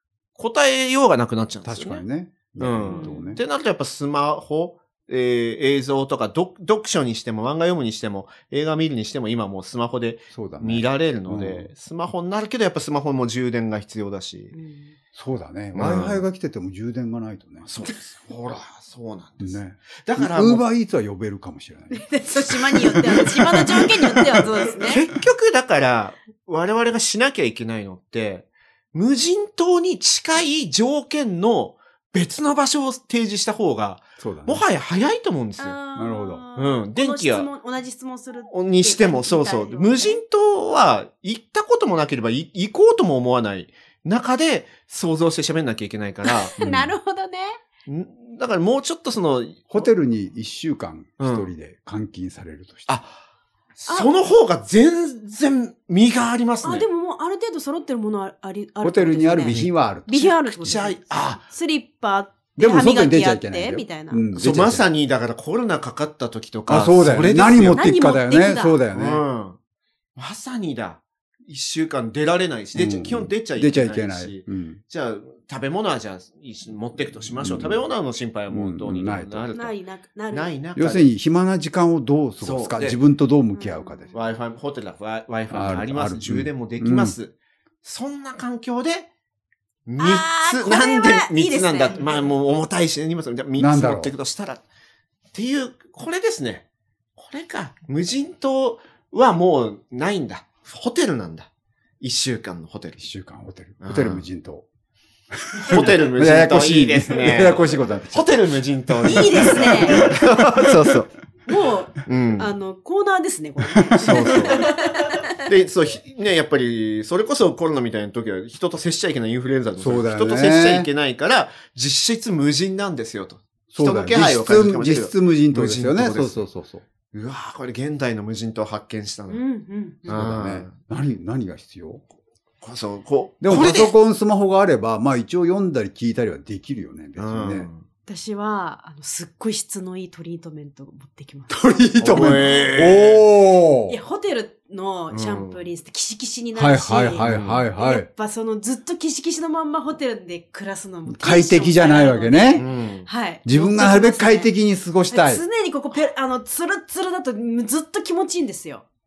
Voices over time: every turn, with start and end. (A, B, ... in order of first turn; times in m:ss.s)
0:00.4-0:02.0 A
0:01.6-0:03.4 B
0:02.6-0:14.5 A
0:02.9-0:03.3 C
0:10.3-0:11.7 B
0:14.5-0:14.9 C
0:15.1-0:17.7 B
0:15.7-0:16.2 A
0:17.6-0:20.6 A
0:19.4-0:24.7 B
0:21.9-0:25.0 C
0:24.8-0:35.8 A
0:34.2-0:34.6 B
0:35.6-0:40.2 C
0:35.9-0:36.4 B
0:36.6-0:37.5 A
0:38.5-0:46.5 A
0:46.2-0:47.6 C
0:46.6-0:46.9 B
0:47.9-0:49.9 A
0:49.7-0:53.0 B
0:51.2-0:51.5 A
0:52.9-0:53.2 A
0:53.8-0:56.8 A
0:56.6-1:04.2 C
0:58.8-1:00.4 B
1:00.4-1:01.4 A
1:02.6-1:04.9 B
1:04.3-1:07.8 A
1:06.7-1:09.2 B
1:07.7-1:08.8 C
1:08.9-1:09.6 A
1:10.2-1:19.8 A
1:12.7-1:14.8 B
1:17.4-1:17.8 B
1:18.5-1:19.5 B
1:19.5-1:20.5 C
1:20.3-1:21.1 A
1:20.7-1:24.1 B
1:22.4-1:23.0 A
1:23.5-1:24.2 C
1:24.1-1:29.1 A
1:25.5-1:27.1 B
1:29.9-1:34.6 A
1:30.0-1:32.2 C
1:33.6-1:34.1 B
1:35.3-1:41.5 A
1:42.0-1:43.0 A
1:43.0-1:44.6 B
1:43.8-1:44.2 A
1:45.3-1:50.2 B
1:45.7-1:51.1 A
1:49.0-1:50.0 C
1:51.4-1:55.4 C
1:52.0-1:52.5 A
1:53.9-1:54.4 B
1:54.0-1:54.7 A
1:55.4-2:06.4 A
1:59.8-2:00.9 B
2:03.7-2:06.8 B
2:07.1-2:09.4 A
2:09.3-2:10.2 C
2:10.0-2:10.8 A
2:10.1-2:12.0 B
2:12.6-2:13.9 A
2:13.4-2:17.7 B
2:17.2-2:17.8 A
2:18.1-2:22.7 C
2:21.5-2:24.0 B
2:22.0-2:23.2 A
2:23.9-2:34.5 C
2:25.1-2:25.6 A
2:26.5-2:28.1 B
2:27.2-2:27.7 A
2:31.1-2:32.6 B
2:32.6-2:33.1 A
2:33.4-2:35.4 B
2:35.1-2:38.8 C